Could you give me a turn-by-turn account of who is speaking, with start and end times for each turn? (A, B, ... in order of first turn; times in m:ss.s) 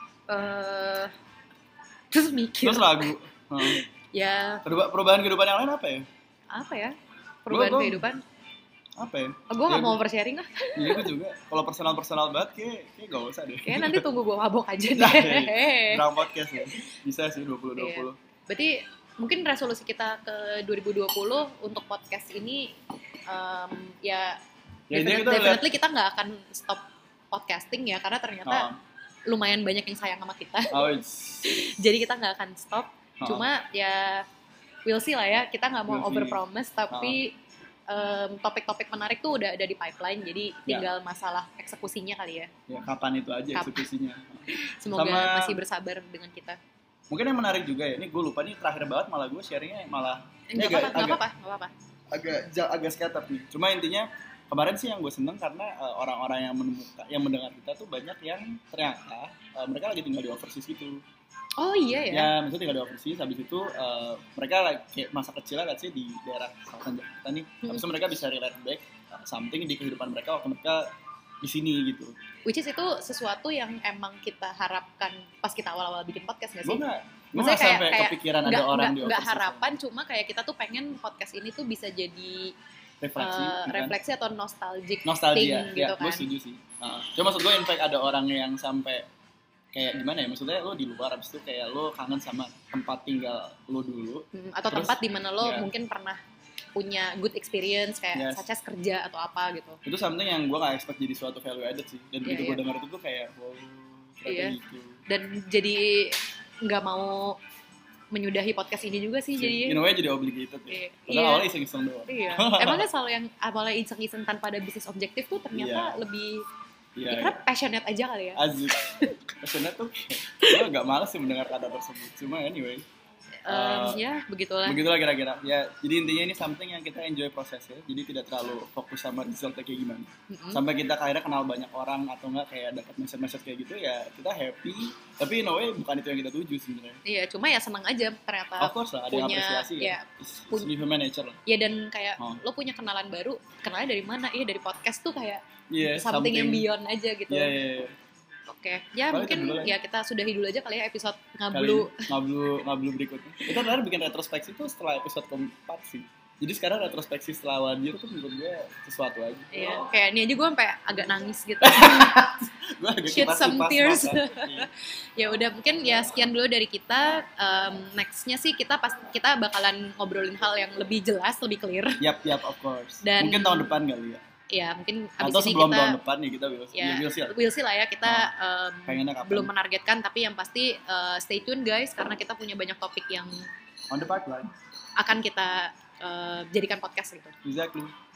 0:00.3-0:01.1 A
0:02.1-0:04.6 A
0:02.6-0:03.8 B
0:04.6-0:06.1 B
0:06.5-0:08.2 A
0:07.5-0:08.0 B
0:09.0-0:10.0 B
0:09.5-0:11.1 A
0:10.8-0:14.1 B
0:13.6-0:16.1 A
0:15.0-0:18.2 B
0:17.8-0:24.4 A
0:24.9-0:25.6 B
0:24.9-0:28.7 A
0:28.4-0:28.8 B
0:29.3-0:30.9 A
0:30.7-0:31.6 B
0:31.4-0:34.3 A
0:33.2-0:33.5 B
0:34.8-0:37.4 A
0:35.9-0:36.4 B
0:36.9-0:37.2 B
0:37.9-0:42.5 A
0:42.7-0:45.6 B
0:43.6-0:43.8 A
0:44.5-0:46.6 A
0:47.1-0:51.2 B
0:50.5-0:51.7 A
0:52.1-1:01.0 B
1:01.6-1:02.3 A
1:02.1-1:10.9 B
1:11.4-1:12.2 B
1:12.5-1:16.8 A
1:16.6-1:19.7 B
1:17.3-1:22.6 A
1:23.0-1:24.0 B
1:23.2-1:26.3 A
1:25.0-1:29.1 B
1:29.7-1:35.7 B
1:34.3-1:36.2 A
1:36.8-1:39.8 A
1:38.1-1:38.4 B
1:39.8-1:45.0 B
1:42.2-1:42.6 A
1:44.3-1:44.6 A
1:45.1-1:47.4 A
1:48.1-1:49.8 A
1:49.4-1:52.9 B
1:50.7-1:51.5 A
1:52.1-1:56.5 A
1:55.5-1:56.0 B
1:57.0-1:57.4 B
1:57.1-1:58.4 A
1:58.4-2:02.8 B
2:03.4-2:04.8 A
2:03.5-2:04.0 B
2:04.6-2:17.0 B
2:10.3-2:10.6 A
2:17.0-2:20.7 A
2:18.6-2:21.4 B
2:21.5-2:27.5 A
2:25.7-2:26.7 B
2:27.3-2:28.0 B
2:28.5-2:32.1 A
2:29.1-2:29.8 B
2:31.5-2:39.8 B
2:39.5-2:42.5 A
2:41.6-2:44.7 B
2:43.1-2:52.0 A
2:52.0-2:54.2 B
2:53.0-2:53.7 A
2:54.5-2:56.0 A
2:55.2-2:57.4 B
2:56.7-3:03.4 A
2:58.0-2:58.3 B
2:58.9-2:59.5 B
3:03.9-3:04.5 B
3:05.0-3:07.3 A
3:07.4-3:07.9 B